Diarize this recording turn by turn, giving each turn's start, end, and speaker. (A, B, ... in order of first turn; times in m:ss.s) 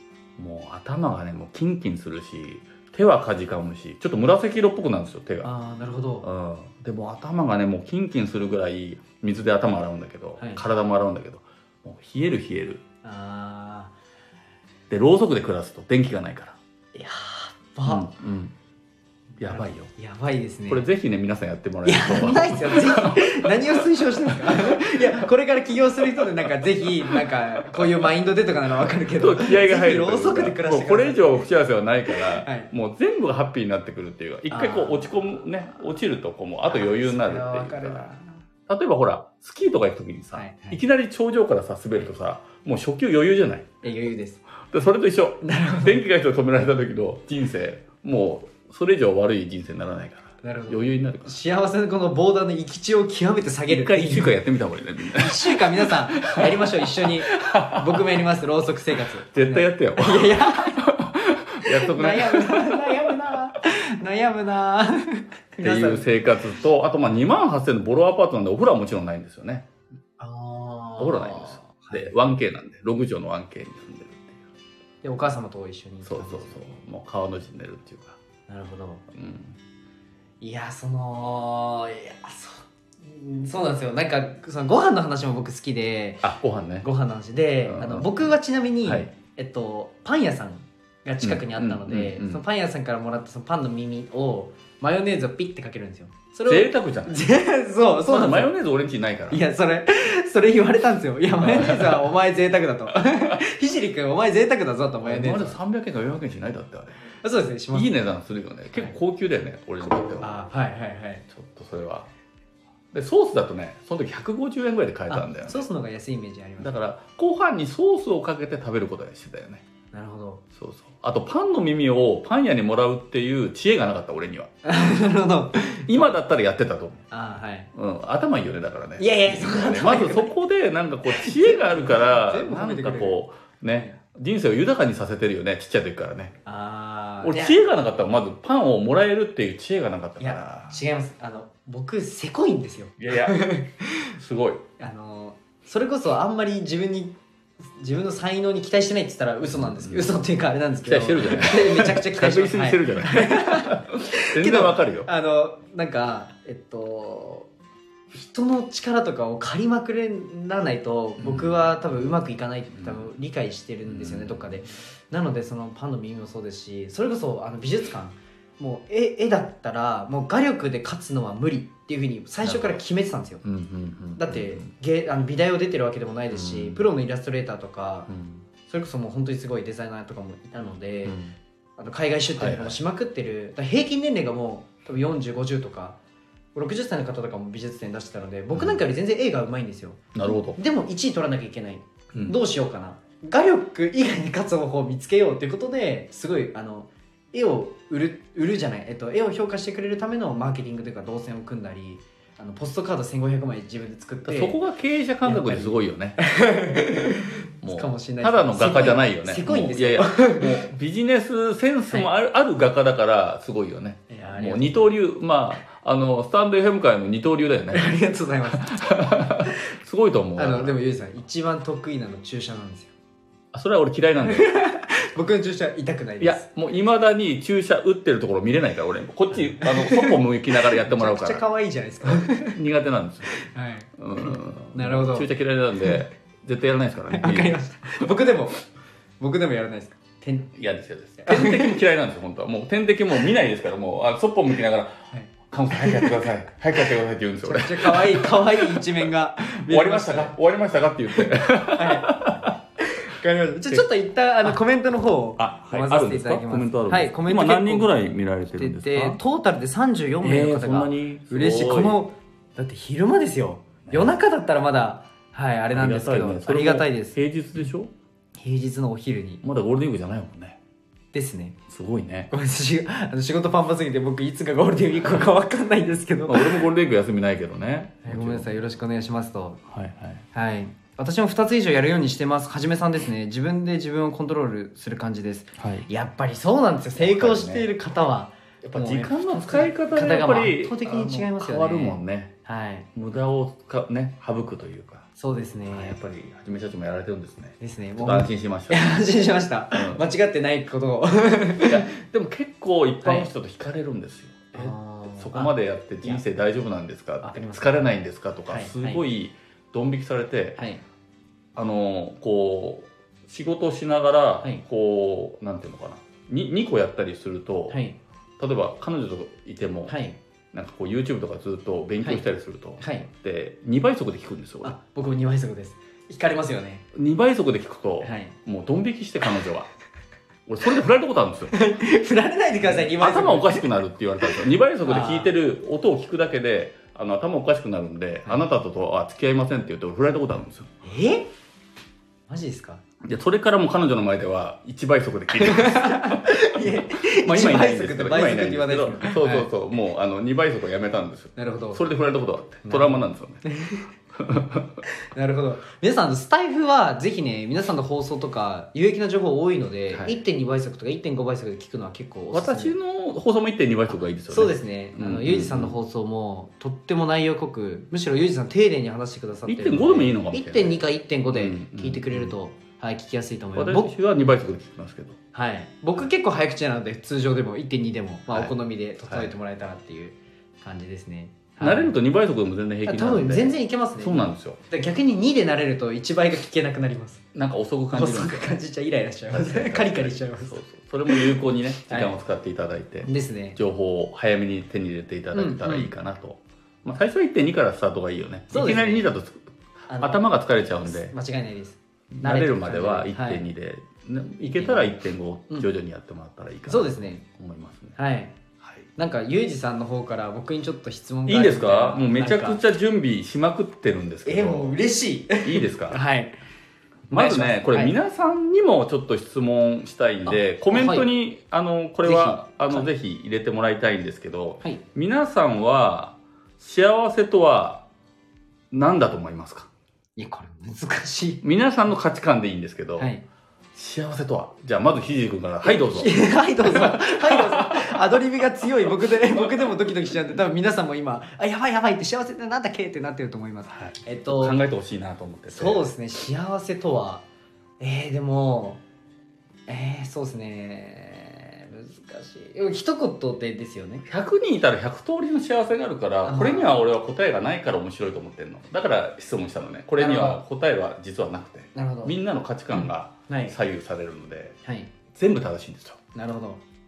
0:00.4-0:05.5 A
0:05.4-0:06.3 B
0:06.2-0:12.8 A
0:13.0-0:13.9 B
0:14.9-0:16.6 A
0:16.9-0:18.1 B
0:17.8-0:18.5 A
0:19.4-0:19.9 A
0:19.4-0:20.8 B
0:20.7-0:25.2 A
0:21.8-0:31.4 B
0:26.0-0:28.1 A
0:29.2-0:38.1 A
0:32.1-0:32.7 B
0:34.5-0:35.3 B
0:36.7-0:38.4 B
0:38.7-0:43.7 A
0:40.3-0:40.8 B
0:43.8-0:44.4 B
0:44.6-0:51.4 A
0:45.4-0:46.0 B
0:50.4-0:54.4 B
0:53.7-0:58.2 A
0:55.1-1:00.9 B
0:59.3-1:03.4 A
1:01.6-1:06.3 B
1:05.6-1:09.7 A
1:10.2-1:12.2 B
1:11.0-1:14.4 A
1:15.0-1:16.8 B
1:16.0-1:18.2 A
1:18.5-1:19.0 B
1:19.1-1:19.6 A
1:20.4-1:26.3 B
1:26.2-1:26.9 A
1:26.8-1:38.5 B
1:27.6-1:28.3 A
1:28.8-1:29.1 A
1:31.2-1:32.4 A
1:36.4-1:37.2 A
1:38.0-1:39.4 A
1:39.3-1:45.6 B
1:41.4-1:42.1 A
1:45.0-1:47.0 A
1:47.2-1:47.9 B
1:47.7-1:50.4 A
1:50.2-1:51.2 B
1:51.3-1:52.1 A
1:52.9-1:55.6 A
1:55.1-1:56.8 B
1:56.6-1:59.6 A
1:59.9-2:00.4 B
2:00.6-2:04.5 A
2:04.6-2:06.0 B
2:05.9-2:07.0 A
2:07.1-2:07.7 B
2:07.7-2:16.4 A
2:09.0-2:10.4 B
2:11.1-2:13.2 B
2:16.4-2:17.6 B
2:17.2-2:20.8 A
2:20.2-2:24.1 B
2:23.0-2:23.4 A
2:24.2-2:24.6 A
2:24.8-2:27.2 B
2:27.8-2:37.5 B
2:29.5-2:30.1 A
2:30.8-2:35.1 A
2:38.1-2:53.4 B
2:41.2-2:41.8 A
2:42.7-2:43.1 A
2:43.9-2:44.6 A
2:52.4-2:52.8 A
2:53.4-2:54.7 A
2:54.2-2:58.1 B
2:56.3-2:56.9 A
2:58.1-2:58.4 A
2:58.6-3:01.2 B
3:01.0-3:01.3 A
3:01.8-3:06.0 B
3:02.4-3:02.8 A
3:06.5-3:10.0 B
3:08.5-3:08.8 A
3:10.1-3:10.6 A
3:10.6-3:24.6 B
3:24.2-3:26.2 A
3:25.2-3:30.7 B
3:27.6-3:38.0 A
3:34.1-3:34.9 B
3:37.7-3:39.6 B
3:38.5-3:40.8 A
3:40.4-3:42.9 B
3:43.5-3:44.6 A
3:44.2-3:46.5 B
3:46.2-3:51.4 A
3:49.3-3:52.6 B
3:52.0-3:53.3 A
3:53.3-3:55.3 B
3:54.0-3:58.1 A
3:57.1-3:58.6 B
3:59.2-4:00.5 B
4:00.5-4:12.6 A
4:01.2-4:01.8 B
4:05.1-4:06.2 B
4:07.4-4:10.3 B
4:11.2-4:18.0 B
4:15.4-4:19.2 A
4:18.5-4:27.2 B
4:20.2-4:22.0 A
4:23.8-4:24.1 A
4:25.7-4:27.9 A
4:28.4-4:29.4 B
4:29.4-4:30.6 A
4:31.1-4:31.6 B
4:31.7-4:32.3 A
4:32.3-4:36.6 B
4:36.3-4:38.6 A
4:38.0-4:39.6 B
4:39.7-4:40.2 A
4:40.3-4:52.9 B
4:45.6-4:45.9 A
4:47.0-4:47.7 A
4:48.6-4:52.3 A
4:52.9-4:55.1 A
4:55.2-4:56.0 B
4:55.7-4:58.9 A
4:57.6-5:02.0 B
4:59.7-5:00.0 A
5:01.6-5:10.6 A
5:03.0-5:03.3 B
5:04.5-5:06.2 B
5:07.2-5:07.8 B
5:08.5-5:09.0 B
5:10.6-5:10.8 B
5:11.5-5:17.8 A
5:17.7-5:18.0 B
5:18.4-5:20.0 A
5:19.9-5:20.2 B
5:20.5-5:24.8 A
5:22.8-5:23.1 B
5:24.6-5:26.8 B
5:26.9-5:29.7 A
5:28.0-5:28.3 B
5:30.5-5:31.5 A
5:31.5-5:33.7 B
5:32.6-5:40.7 A
5:34.8-5:35.3 B
5:40.8-5:41.3 B
5:42.3-5:42.8 B
5:43.0-5:53.4 A
5:45.4-5:49.5 B
5:51.4-5:51.8 B
5:52.6-5:53.9 B
5:54.1-5:54.8 A
5:54.8-6:02.8 B
5:59.9-6:00.2 A
6:02.3-6:05.8 A
6:04.3-6:13.9 B
6:09.4-6:10.8 A
6:11.3-6:12.3 A
6:13.6-6:15.2 A
6:15.3-6:21.9 B
6:19.1-6:19.3 A
6:21.6-6:24.6 A
6:22.8-6:27.2 B
6:27.3-6:28.5 A
6:27.9-6:32.1 B
6:29.3-6:41.1 A
6:33.0-6:33.6 B
6:35.3-6:35.9 B
6:38.5-6:39.1 B
6:39.9-6:40.2 B
6:40.9-6:43.5 B
6:42.1-6:48.0 A
6:44.4-6:44.9 B
6:46.7-6:47.2 B
6:48.0-6:48.3 B
6:48.6-6:48.9 A
6:49.0-6:52.6 B
6:51.3-6:54.7 A
6:54.2-6:56.4 B
6:55.4-6:56.0 A
6:57.1-7:07.9 A
6:57.1-6:57.9 B
7:00.2-7:01.1 B
7:02.0-7:02.9 B
7:08.7-7:09.7 A
7:10.2-7:11.4 B
7:11.4-7:13.1 A
7:13.0-7:13.2 B
7:13.7-7:18.0 A
7:15.6-7:24.6 B
7:18.9-7:19.7 A
7:23.7-7:25.9 A
7:25.5-7:27.2 B
7:27.8-7:28.8 B
7:29.7-7:34.0 B
7:34.0-7:44.6 A
7:36.2-7:36.9 B
7:40.0-7:40.4 B
7:41.7-7:42.1 B
7:42.7-7:43.5 B
7:44.6-7:44.9 B
7:45.1-7:46.0 A
7:46.1-7:46.6 B